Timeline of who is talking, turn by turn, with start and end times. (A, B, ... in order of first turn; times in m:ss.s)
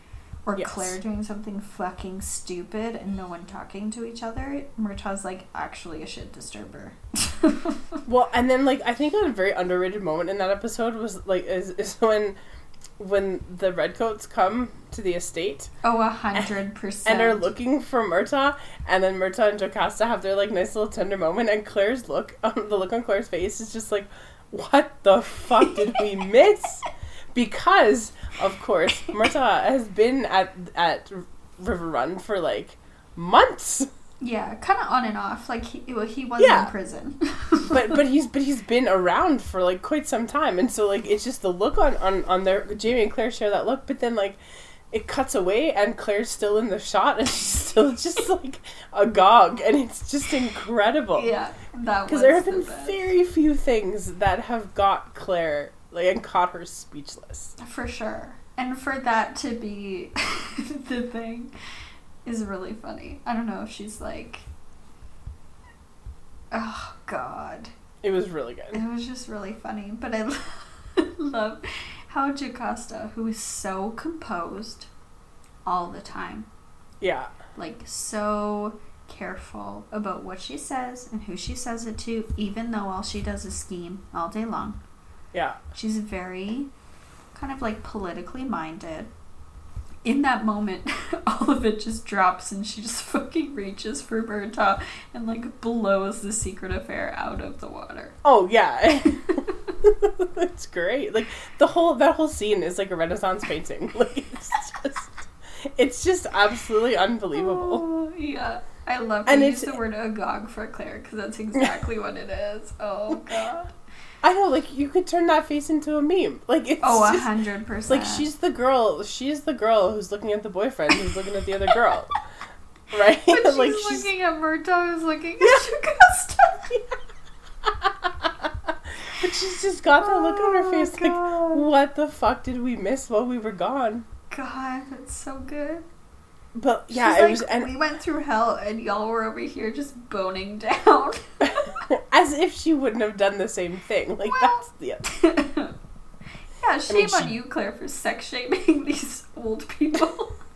0:00.5-0:08.0 A
0:00.6-0:01.0 B
0:08.1-0:12.4 B
0:13.0-0:15.7 B
0:15.8-0:17.4 A
0:17.0-0:33.9 B
0:34.2-0:38.0 A
0:36.4-0:36.7 B
0:37.7-0:44.4 B
0:44.9-0:51.3 B
0:51.2-0:53.1 A
0:52.1-0:57.6 B
0:57.6-1:01.5 A
1:02.2-1:04.5 A
1:06.5-1:07.7 A
1:08.0-1:08.8 B
1:08.7-1:14.9 A
1:15.7-1:16.5 A
1:17.0-1:17.3 B
1:17.6-1:24.8 A
1:25.3-1:25.6 B
1:25.7-1:26.7 A
1:27.4-1:29.1 A
1:30.0-1:38.2 A
1:38.2-1:47.8 B
1:39.1-1:39.7 A
1:47.4-1:53.7 A
1:49.3-1:49.8 B
1:53.1-1:53.6 B
1:54.2-1:57.3 B
1:56.8-1:58.3 A
1:57.9-2:02.1 B
2:02.9-2:04.1 B
2:03.3-2:06.8 A
2:07.6-2:14.1 B
2:10.0-2:11.7 A
2:14.3-2:15.8 A
2:16.5-2:17.7 B
2:16.9-2:21.8 A
2:21.5-2:25.0 B
2:24.3-2:25.7 A
2:26.6-2:30.4 A
2:26.9-2:27.3 B